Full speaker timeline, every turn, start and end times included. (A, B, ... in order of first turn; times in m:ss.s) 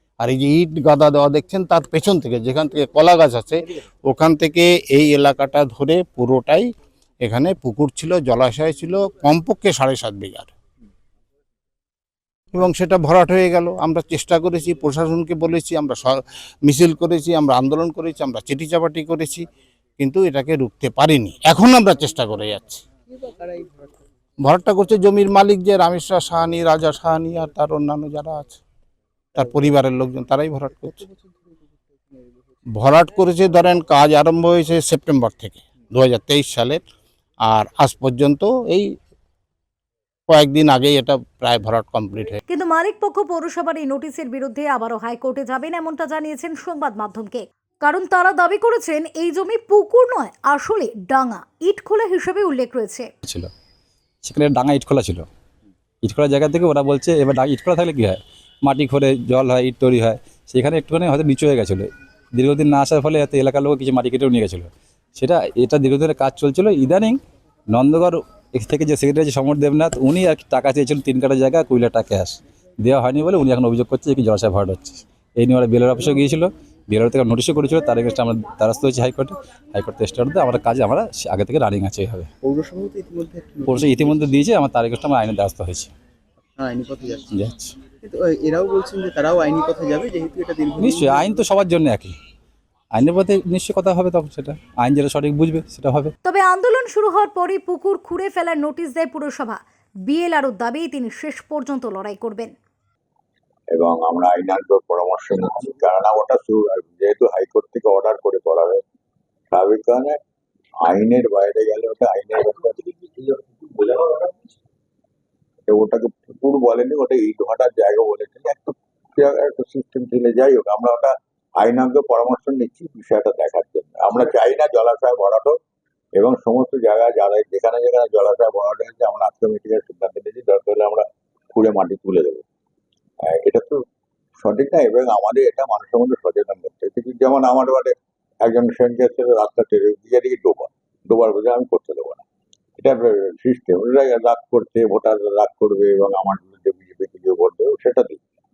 0:00.2-0:06.7 A
0:07.2-0:10.5 A
0:12.5-0:19.5 A
0:20.0-0:22.8 A
0:23.1-0:24.0 B
0:24.4-0:28.6 A
0:29.4-0:31.0 A
0:31.0-0:32.3 B
0:32.8-0:36.8 A
0:37.4-0:38.9 A
0:40.3-0:42.4 A
0:42.5-0:53.1 C
0:53.2-0:53.5 D
0:54.2-0:55.2 D
0:56.0-1:07.2 D
1:07.7-1:22.3 D
1:22.4-1:24.3 B
1:23.6-1:25.9 D
1:26.6-1:27.3 B
1:27.3-1:27.8 D
1:27.9-1:31.4 B
1:30.8-1:32.1 D
1:32.9-1:36.1 D
1:36.2-1:42.5 C
1:43.7-1:48.8 E
1:49.5-1:50.2 E
1:50.8-1:54.2 E
1:55.7-2:05.6 E
2:06.2-2:12.4 E
2:13.3-2:13.8 E
2:14.4-2:22.2 E
2:22.8-2:28.2 E